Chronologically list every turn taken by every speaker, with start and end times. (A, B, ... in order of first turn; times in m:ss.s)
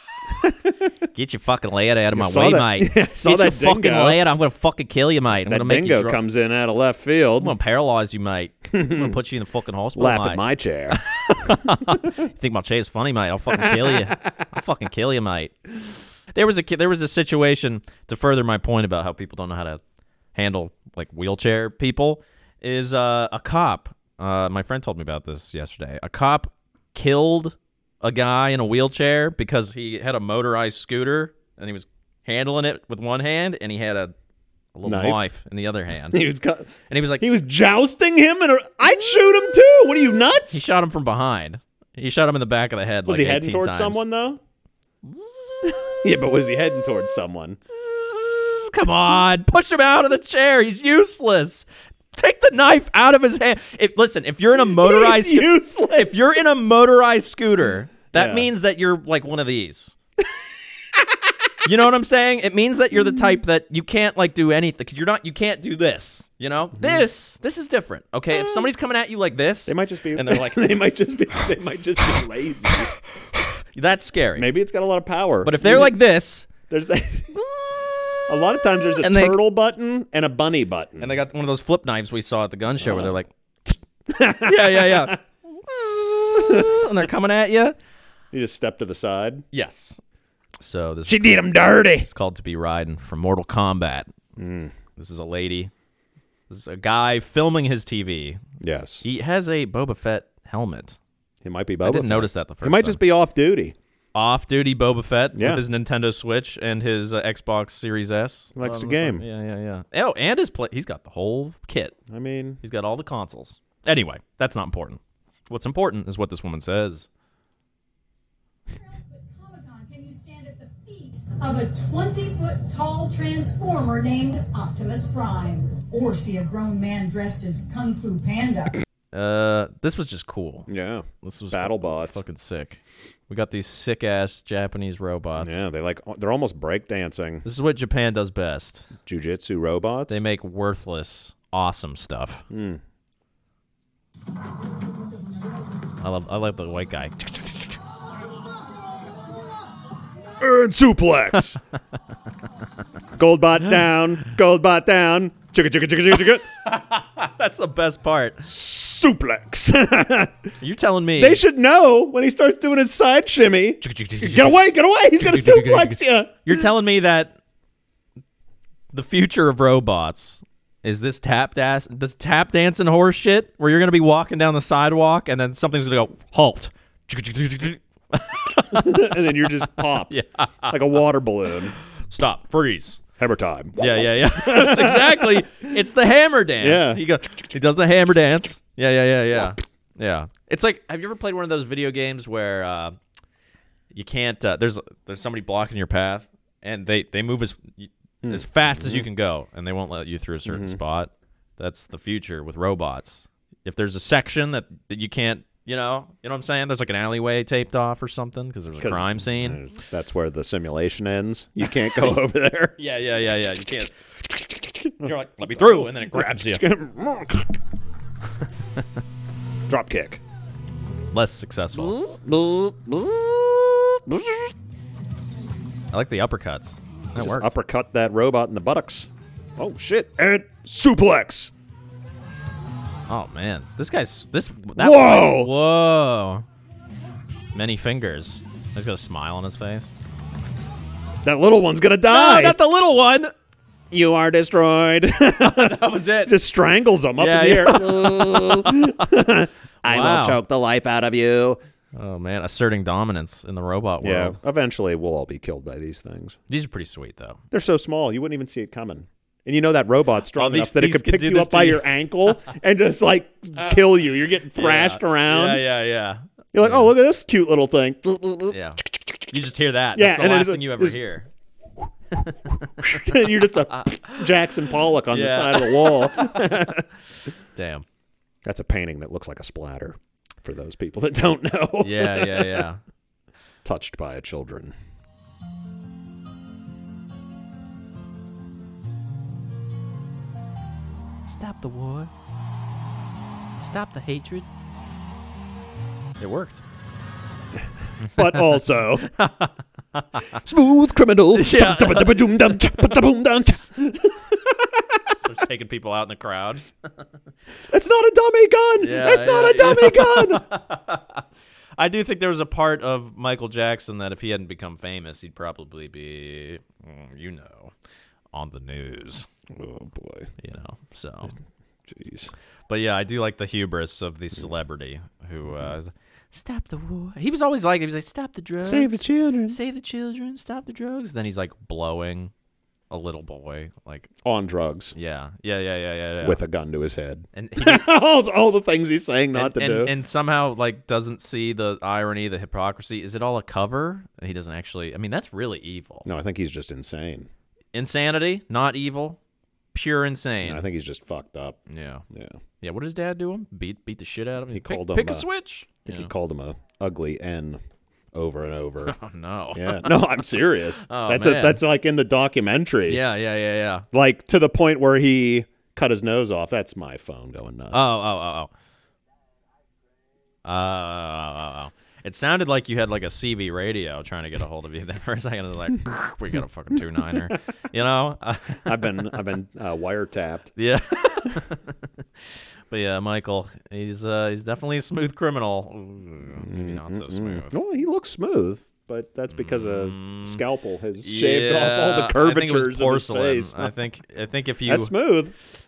0:00.4-0:00.9 A
0:01.1-0:06.2 B
0:02.1-0:04.2 A
0:05.4-0:07.6 A
0:07.4-0:15.6 B
0:08.7-0:09.2 A
0:10.0-0:12.1 A
0:13.5-0:14.1 A
0:16.3-0:19.8 B
0:20.3-0:34.1 B
0:34.7-0:36.2 B
0:34.8-0:35.2 A
0:36.1-0:40.6 A
0:36.9-0:37.2 B
0:40.5-0:44.0 B
0:43.0-0:44.4 A
0:45.0-0:46.2 B
0:46.0-0:47.6 A
0:47.7-0:59.9 B
0:54.6-0:56.4 A
0:58.1-0:58.5 A
1:00.9-1:01.3 A
1:01.6-1:10.6 B
1:06.8-1:07.0 A
1:08.3-1:08.7 A
1:09.7-1:12.9 A
1:13.7-1:14.5 B
1:14.4-1:16.0 A
1:15.4-1:16.5 B
1:16.7-1:17.5 A
1:17.6-1:18.2 B
1:18.3-1:21.1 A
1:19.0-1:19.4 B
1:21.0-1:23.3 B
1:22.8-1:23.1 A
1:24.1-1:26.9 A
1:24.4-1:25.2 B
1:26.2-1:27.8 B
1:28.3-1:29.4 A
1:29.5-1:30.0 B
1:30.6-1:31.4 B
1:31.1-1:32.1 A
1:32.0-1:34.1 B
1:34.4-1:34.7 A
1:35.0-1:35.7 B
1:36.5-1:38.4 B
1:38.6-1:39.0 A
1:39.0-1:41.0 B
1:41.4-1:43.7 A
1:41.8-1:43.0 B
1:44.1-1:52.0 B
1:45.3-1:45.6 A
1:48.6-1:49.2 A
1:52.1-1:52.6 A
1:52.6-1:57.1 B
1:58.7-2:08.8 C
2:09.1-2:10.7 B
2:10.7-2:12.2 A
2:11.2-2:15.6 B
2:15.4-2:17.4 A
2:17.4-2:18.9 B
2:19.0-2:20.2 A
2:20.1-2:22.4 B
2:22.5-2:22.8 A
2:26.0-2:27.8 B
2:30.4-2:31.6 A
2:33.1-2:36.5 A
2:36.6-2:38.4 B
2:38.4-2:40.3 A
2:40.6-2:41.4 B
2:41.2-2:46.6 A
2:43.8-2:44.6 B
2:45.2-2:47.4 B
2:48.9-3:00.8 B
2:58.7-3:00.1 A
3:00.7-3:01.8 A
3:02.1-3:03.0 B
3:03.2-3:05.7 A
3:03.8-3:13.0 B
3:06.6-3:07.0 A
3:13.9-3:29.6 B
3:18.2-3:19.1 A
3:20.5-3:20.8 A
3:28.8-3:32.7 A
3:32.8-3:36.6 B
3:35.0-3:37.6 A
3:39.7-3:40.2 A
3:41.1-3:42.0 B
3:41.7-3:44.5 A
3:45.9-3:47.5 B
3:47.2-3:51.5 A
3:53.1-3:56.4 B
3:54.8-3:55.5 A
3:57.5-3:59.9 B
4:01.2-4:02.6 A
4:02.1-4:03.3 B
4:03.9-4:11.6 A
4:05.4-4:06.3 B
4:07.2-4:09.0 B
4:09.8-4:10.4 B
4:11.9-4:14.4 B
4:14.0-4:16.4 A
4:16.5-4:17.4 B
4:17.5-4:25.6 A
4:20.3-4:21.8 B
4:24.5-4:26.9 B
4:26.5-4:29.3 A
4:28.5-4:31.3 B
4:29.9-4:31.0 A
4:32.6-4:36.8 A
4:33.7-4:34.3 B
4:35.1-4:36.5 B
4:37.5-4:37.8 B
4:38.4-4:42.7 A
4:41.8-4:42.8 B
4:43.6-4:44.7 A
4:51.3-4:52.1 B
4:53.6-4:54.4 B
4:56.2-4:56.6 B
4:58.0-4:58.4 B
4:58.0-4:59.1 A
4:59.0-5:00.2 B
5:00.3-5:05.0 A
5:01.3-5:02.7 B
5:05.1-5:06.7 B
5:07.7-5:10.5 A
5:08.8-5:11.2 B
5:11.8-5:17.7 B
5:18.3-5:19.2 B
5:19.5-5:20.3 A
5:20.4-5:21.3 B
5:21.9-5:22.3 A
5:22.7-5:32.3 B
5:28.6-5:29.6 A
5:32.9-5:34.1 B
5:34.2-5:34.9 A
5:34.9-5:36.4 B
5:36.2-5:39.9 A
5:37.3-5:37.8 B
5:39.3-5:46.1 B
5:46.0-5:47.3 A
5:47.7-5:49.2 B
5:49.7-5:50.6 B
5:50.4-5:51.6 A
5:51.7-5:52.0 B
5:52.1-5:52.4 A
5:52.6-5:56.1 B
5:54.5-5:55.2 A
5:55.8-5:57.6 A
5:58.1-5:59.0 A
5:58.8-6:00.0 B
5:59.5-6:03.0 A
6:00.8-6:01.6 B
6:02.8-6:03.8 B
6:03.9-6:07.9 A
6:07.7-6:08.5 B
6:10.4-6:18.9 B
6:18.6-6:20.5 A
6:20.6-6:27.5 B
6:26.3-6:33.7 A
6:29.3-6:30.4 B
6:31.0-6:34.9 B
6:34.7-6:35.3 A